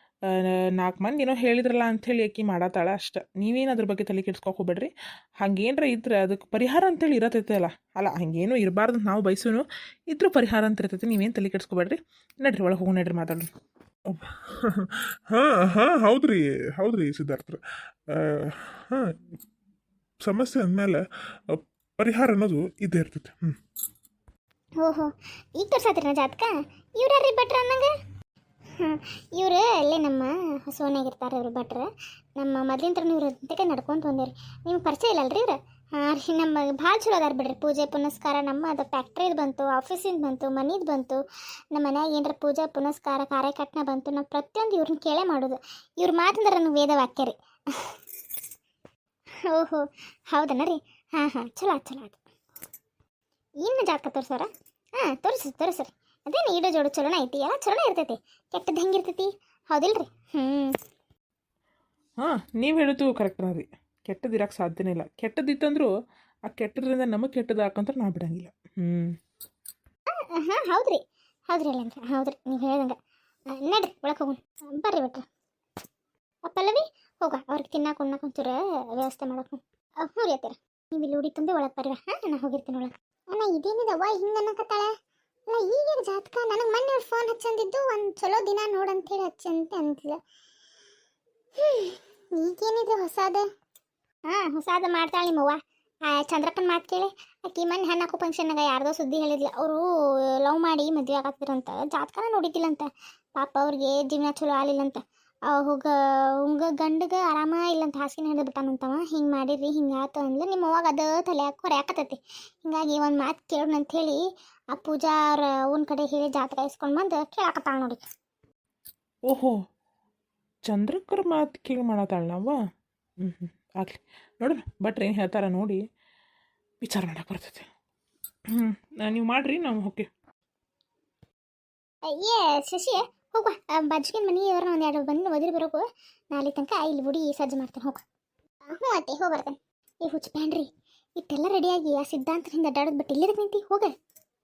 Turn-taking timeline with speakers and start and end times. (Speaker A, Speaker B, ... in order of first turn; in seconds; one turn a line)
Speaker A: 0.3-13.5
Speaker B: 14.1-17.6
Speaker B: 18.1-19.1
Speaker B: 20.2-23.6
Speaker C: 24.8-27.9
Speaker C: 28.8-41.2
Speaker C: 41.7-48.0
Speaker C: 49.5-52.2
Speaker C: 53.6-54.5
Speaker C: 55.0-60.7
Speaker A: 62.2-65.9
Speaker A: 66.5-69.1
Speaker C: 70.2-73.0
Speaker C: 73.6-75.2
Speaker C: 76.5-84.9
Speaker C: 85.5-90.2
Speaker C: 91.6-93.5
Speaker C: 94.3-99.8
Speaker C: 100.4-114.2
Speaker C: 114.7-118.0
Speaker A: 119.3-119.5
Speaker A: 120.7-122.6
Speaker A: 123.2-125.8
Speaker A: 126.8-127.6
Speaker A: 128.5-130.1
Speaker C: 132.1-138.0
Speaker C: 138.7-143.9